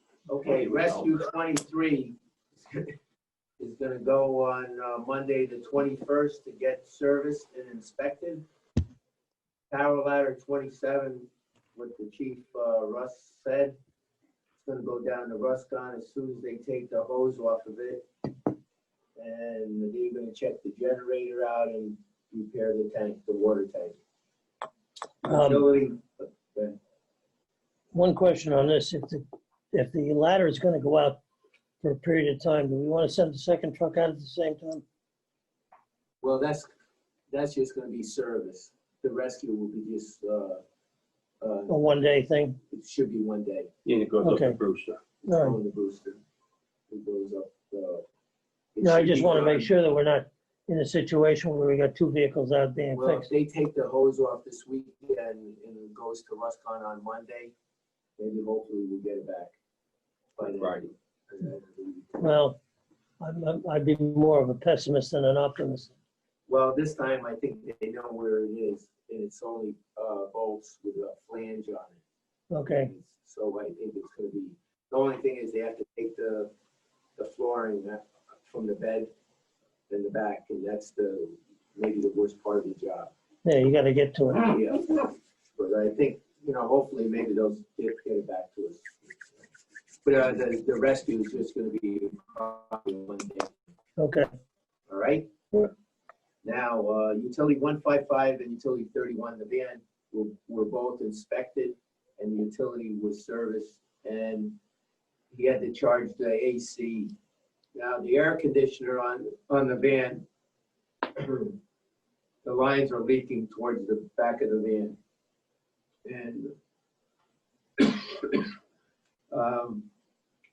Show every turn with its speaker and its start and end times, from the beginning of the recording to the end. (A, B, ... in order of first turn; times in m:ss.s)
0:00.3-0:02.9 A
0:00.5-0:01.0 B
0:03.6-0:08.4 A
0:09.7-0:13.8 A
0:14.6-0:18.5 A
0:19.2-0:24.0 A
0:25.2-0:26.8 A
0:25.3-0:25.7 C
0:27.9-0:31.2 C
0:31.8-0:34.8 C
0:36.2-0:36.7 A
0:37.3-0:40.6 A
0:41.4-0:41.8 A
0:41.7-0:42.6 C
0:42.7-0:43.7 A
0:43.8-0:45.0 B
0:44.2-0:44.6 C
0:45.3-0:45.6 C
0:45.3-0:46.2 A
0:46.9-0:48.0 A
0:48.8-0:49.7 A
0:48.8-0:53.3 C
0:52.9-0:57.5 A
0:58.2-0:59.5 A
1:00.4-1:02.2 A
1:00.4-1:00.9 B
1:02.2-1:02.6 C
1:03.2-1:05.9 C
1:06.5-1:12.0 A
1:12.5-1:12.9 C
1:12.7-1:16.5 A
1:17.2-1:19.1 A
1:19.9-1:23.1 A
1:23.4-1:24.6 C
1:24.4-1:28.9 A
1:30.0-1:33.5 A
1:34.0-1:34.3 C
1:34.9-1:35.3 A
1:36.4-1:44.6 A
1:45.3-1:47.1 A
1:47.8-1:50.2 A
1:51.1-1:51.6 A
1:52.4-1:55.0 A
1:56.0-1:56.5 A
1:57.8-1:58.5 A
1:59.3-1:59.8 A